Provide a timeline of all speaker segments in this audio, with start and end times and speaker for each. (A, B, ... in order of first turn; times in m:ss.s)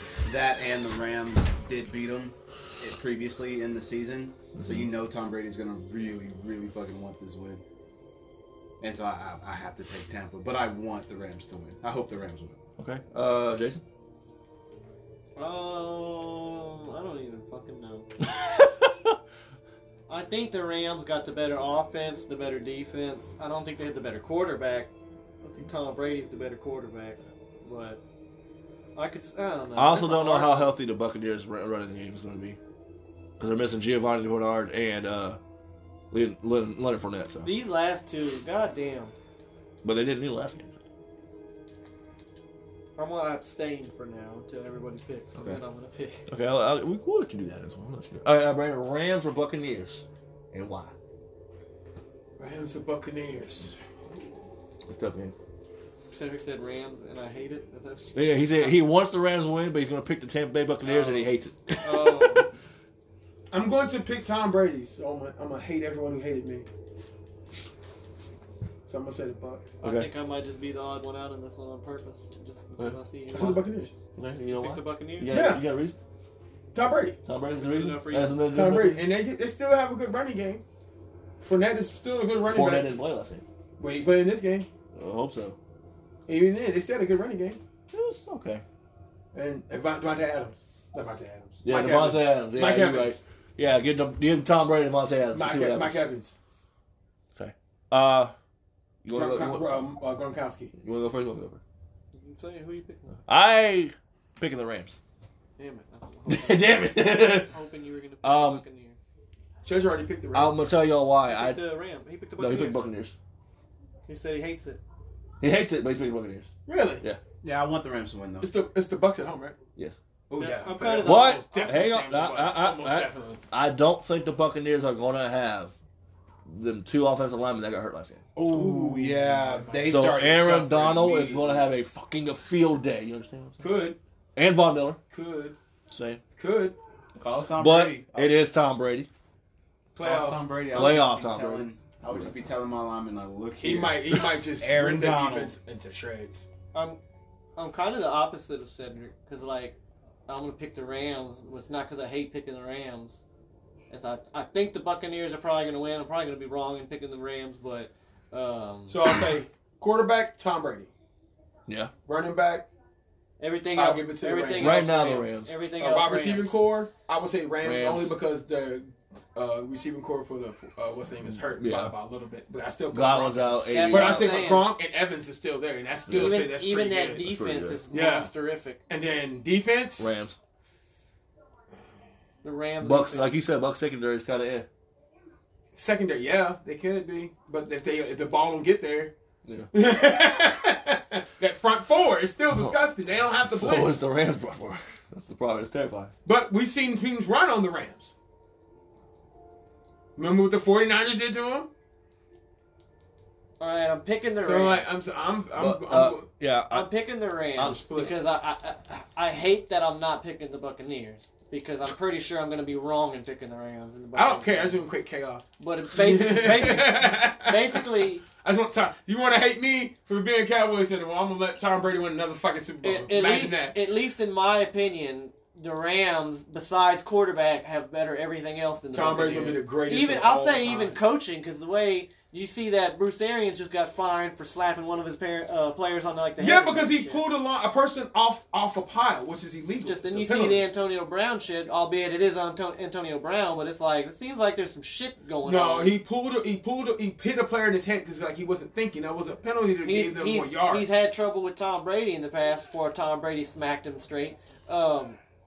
0:00.2-0:07.6 A
0:04.6-0:04.9 B
0:08.8-0:12.6 A
0:12.8-0:13.8 B
0:15.4-0:18.1 C
0:18.2-0:19.1 B
0:20.1-0:24.9 C
0:25.4-0:28.0 C
0:29.0-0:30.8 C
0:29.8-0:32.6 B
0:33.4-0:35.4 B
0:36.1-0:37.5 B
0:37.4-0:39.1 C
0:39.8-0:40.7 B
0:43.0-0:46.2 C
0:45.3-0:45.6 B
0:46.3-0:50.9 B
0:52.4-0:53.8 D
0:54.9-0:55.3 B
0:56.1-0:58.8 C
0:58.1-1:02.4 B
1:00.8-1:02.5 C
1:03.5-1:06.7 D
1:08.8-1:09.8 D
1:09.8-1:13.9 C
1:09.8-1:10.1 B
1:13.3-1:13.9 D
1:14.1-1:16.0 B
1:14.5-1:15.4 C
1:15.3-1:15.6 D
1:16.7-1:17.2 D
1:17.2-1:19.0 B
1:17.5-1:18.4 C
1:18.5-1:20.6 D
1:21.4-1:22.9 D
1:22.5-1:23.4 B
1:23.8-1:24.7 D
1:24.9-1:25.6 B
1:26.2-1:27.6 D
1:27.9-1:28.6 B
1:29.3-1:33.2 D
1:31.6-1:36.0 B
1:35.3-1:36.4 D
1:37.4-1:38.3 B
1:39.0-1:39.8 B
1:39.1-1:40.7 D
1:40.8-1:41.6 B
1:42.1-1:43.2 C
1:43.3-1:45.0 B
1:45.6-1:49.0 C
1:46.3-1:47.5 B
1:48.2-1:48.6 B
1:49.6-1:50.7 D
1:50.3-1:51.6 B
1:51.3-1:52.8 C
1:52.4-1:53.1 B
1:54.1-1:54.8 C
1:55.4-1:57.2 B
1:56.6-1:57.0 D
1:57.4-1:58.5 A
1:58.4-1:59.6 D
2:00.3-2:00.8 A
2:00.3-2:03.4 D
2:00.4-2:01.7 C
2:01.0-2:05.7 B
2:06.4-2:08.2 B
2:08.3-2:11.6 A
2:08.5-2:10.4 D
2:09.8-2:13.6 B
2:13.6-2:14.0 D
2:14.3-2:15.0 B
2:15.1-2:15.6 D
2:15.9-2:16.2 B
2:16.4-2:16.8 D
2:17.2-2:18.3 A
2:17.6-2:19.1 B
2:19.9-2:20.8 D
2:20.0-2:25.5 A
2:20.7-2:21.7 B
2:23.6-2:26.4 D
2:26.7-2:27.0 C
2:27.6-2:29.8 C
2:30.3-2:33.2 C
2:33.9-2:39.0 C
2:38.9-2:40.9 D
2:41.7-2:41.9 B
2:42.0-2:42.7 D
2:43.4-2:46.6 C
2:43.7-2:45.2 D
2:44.6-2:45.6 B
2:45.8-2:57.3 D
2:47.6-2:48.2 B
2:51.5-2:51.9 B
2:52.9-2:54.5 B
2:53.7-2:54.7 C
2:56.1-2:56.5 B
2:56.1-2:58.8 C
2:57.2-2:57.8 B
2:57.9-2:58.3 D
2:58.9-3:00.1 D
3:00.0-3:00.4 B
3:02.4-3:03.4 C
3:02.8-3:04.7 B
3:05.7-3:09.1 D
3:09.4-3:09.7 B
3:09.7-3:14.0 D
3:13.4-3:16.1 B
3:16.2-3:18.1 D
3:20.2-3:21.7 D
3:23.6-3:24.8 C
3:24.4-3:26.3 D
3:25.6-3:26.9 B
3:26.7-3:34.8 C
3:27.5-3:28.2 D
3:27.6-3:27.9 B
3:34.1-3:43.8 D
3:35.6-3:38.2 C
3:42.8-3:57.2 C
3:48.9-3:51.0 D
3:56.4-4:00.7 D
3:59.8-4:06.0 C
4:05.4-4:11.0 D
4:09.8-4:15.2 C